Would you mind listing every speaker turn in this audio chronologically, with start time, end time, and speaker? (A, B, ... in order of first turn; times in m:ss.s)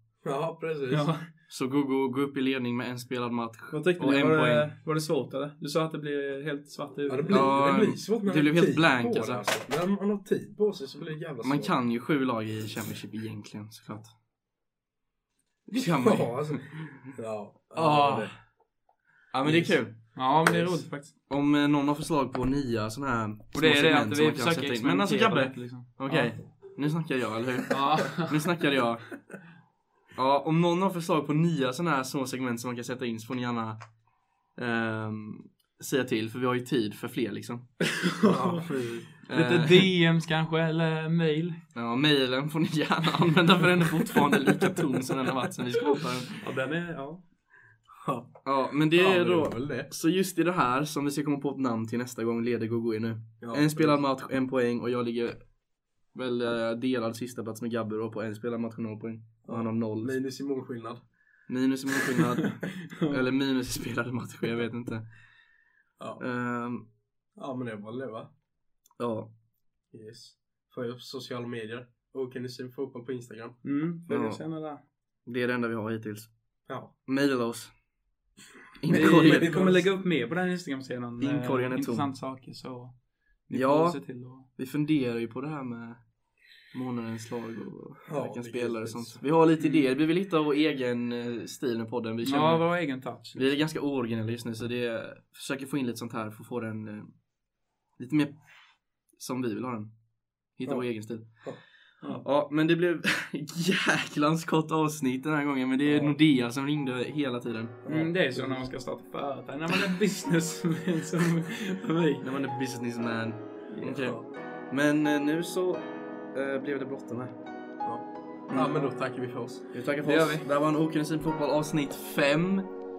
0:00.2-0:01.1 A
0:00.9-0:01.2 B
0:01.5-0:04.7 C
0:03.7-0:07.5 B
0:07.1-0:11.7 A
0:07.3-0:09.5 C
0:11.4-0:14.1 C
0:15.7-0:16.5 C
0:15.9-0:18.3 A
0:17.7-0:18.3 C
0:19.3-0:19.9 C
0:19.4-0:19.8 A
0:20.1-0:21.1 B
0:20.4-0:20.8 A
0:21.3-0:29.1 C
0:23.5-0:26.3 B
0:27.7-0:28.4 B
0:30.2-0:33.8 C
0:34.6-0:37.6 C
0:37.9-0:38.6 B
0:38.2-0:39.1 A
0:39.2-0:41.6 B
0:39.3-0:39.9 C
0:41.7-0:46.4 C
0:46.4-0:47.2 B
0:48.0-0:49.9 A
0:48.4-0:55.4 C
0:53.4-0:54.0 A
0:56.1-1:00.2 C
0:59.4-1:01.0 A
1:01.5-1:05.0 C
1:06.2-1:06.8 C
1:07.4-1:08.3 A
1:09.0-1:09.3 C
1:09.9-1:13.6 A
1:13.6-1:14.8 B
1:14.1-1:14.4 C
1:15.3-1:16.3 C
1:16.7-1:16.9 A
1:17.1-1:17.7 C
1:18.8-1:19.5 C
1:18.9-1:22.9 B
1:18.9-1:19.9 A
1:21.2-1:22.1 C
1:23.5-1:24.5 B
1:23.5-1:24.0 C
1:24.6-1:26.0 C
1:26.7-1:32.7 C
1:28.1-1:29.2 A
1:29.6-1:29.8 B
1:32.2-1:33.6 B
1:33.3-1:37.1 C
1:38.0-1:38.3 C
1:39.2-1:39.9 C
1:40.5-1:41.2 C
1:42.0-1:47.8 C
1:45.8-1:46.2 A
1:47.8-1:48.7 A
1:47.9-1:52.2 B
1:52.2-1:54.2 C
1:53.8-1:54.3 A
1:54.7-1:57.3 C
1:57.8-1:59.6 A
1:58.5-1:58.9 B
1:59.7-2:02.7 C
2:00.0-2:00.4 B